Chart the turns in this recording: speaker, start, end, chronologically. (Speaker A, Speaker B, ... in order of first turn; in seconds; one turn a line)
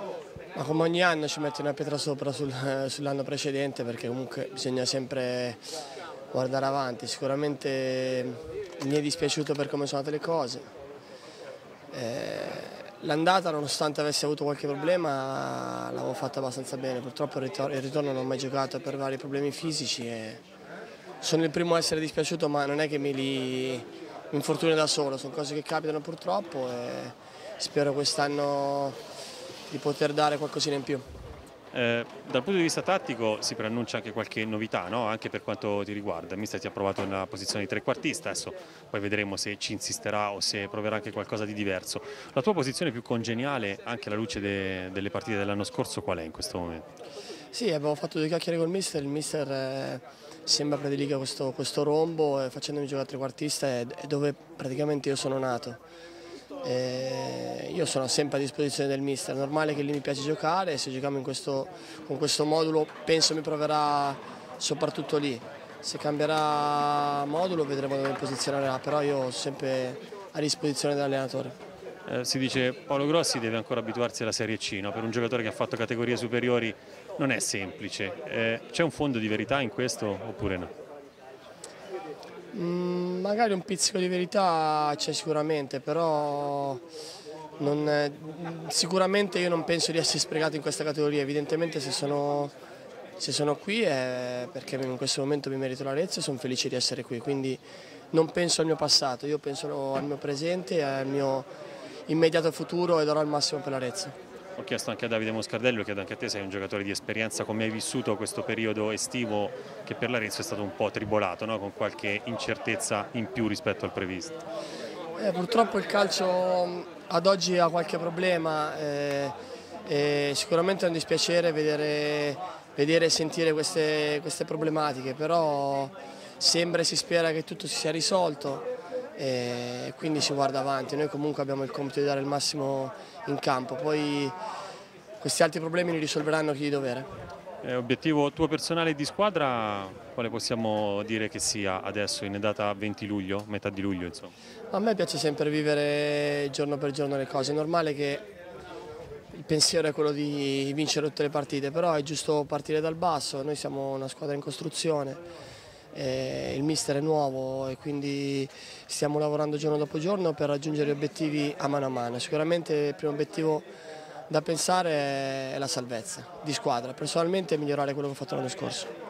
Speaker A: 0.6-5.7
Speaker A: 6.3-10.6
Speaker A: 11.9-20.4
Speaker A: 21.2-29.0
Speaker A: 29.7-31.1
Speaker B: 31.7-46.9
Speaker A: 47.5-55.8
Speaker A: 56.6-71.6
Speaker B: 72.1-80.7
Speaker A: 82.5-86.8
Speaker A: 87.6-92.5
Speaker A: 93.2-101.5
Speaker A: 102.1-104.2
Speaker B: 104.6-114.4
Speaker A: 115.2-119.3
Speaker A: 119.9-128.7
Speaker A: 129.2-134.3
Speaker A: 135.2-137.1
Speaker B: 137.6-144.3
Speaker A: 144.7-148.2
Speaker A: 149.3-155.2
Speaker A: 155.9-163.7
Speaker A: 164.3-168.9